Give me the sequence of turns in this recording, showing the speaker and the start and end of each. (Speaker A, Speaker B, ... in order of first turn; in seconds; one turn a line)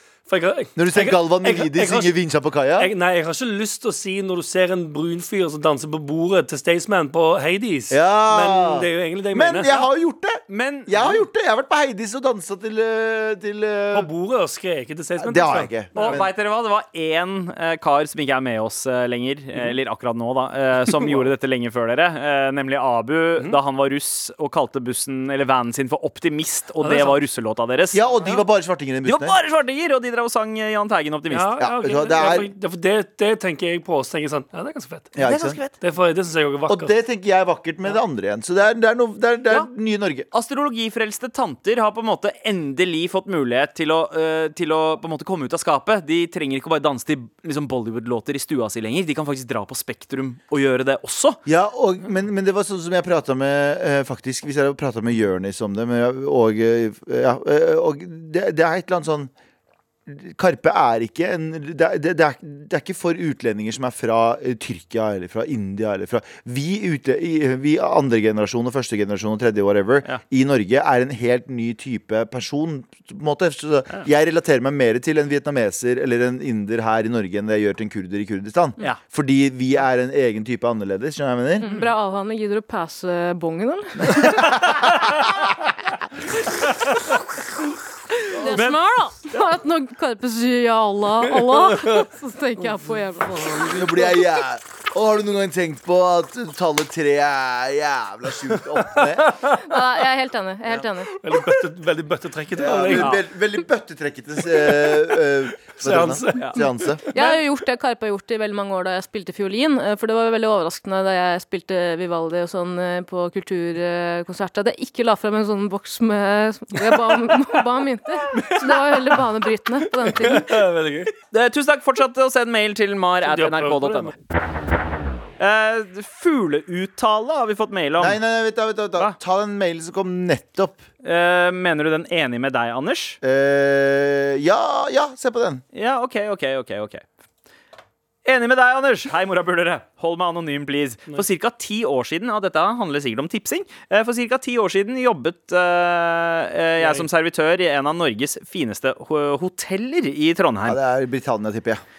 Speaker A: 0.3-2.1
Speaker B: 0.8-2.9
Speaker A: 2.8-9.9
Speaker B: 7.9-14.1
Speaker C: 10.5-11.2
Speaker A: 13.9-16.2
Speaker B: 15.2-16.3
Speaker C: 15.9-28.4
Speaker A: 26.8-27.2
Speaker B: 27.9-29.4
Speaker C: 29.1-31.6
Speaker A: 31.3-35.2
Speaker B: 31.6-32.5
Speaker B: 35.2-35.6
Speaker C: 35.2-35.8
Speaker A: 35.8-36.9
Speaker B: 36.7-40.3
Speaker C: 40.3-51.4
Speaker B: 51.5-59.3
Speaker B: 60.1-81.7
Speaker D: 81.6-84.5
Speaker B: 84.1-84.6
Speaker C: 86.5-87.0
Speaker D: 88.4-94.0
Speaker C: 88.5-89.5
Speaker A: 91.2-92.1
Speaker A: 93.3-93.9
Speaker B: 93.7-99.3
Speaker A: 98.7-99.7
Speaker D: 99.6-101.1
Speaker A: 101.2-103.2
Speaker B: 102.6-107.0
Speaker C: 102.9-103.2
Speaker A: 104.7-105.0
Speaker A: 105.8-106.6
Speaker D: 107.1-120.6
Speaker C: 118.4-118.9
Speaker A: 120.0-121.1
Speaker C: 121.2-124.1
Speaker A: 123.2-124.1
Speaker C: 125.4-128.2
Speaker B: 128.0-130.8
Speaker C: 131.0-133.2
Speaker B: 133.2-135.6
Speaker C: 135.7-137.1
Speaker C: 138.2-150.8
Speaker A: 146.8-147.1
Speaker B: 150.7-151.8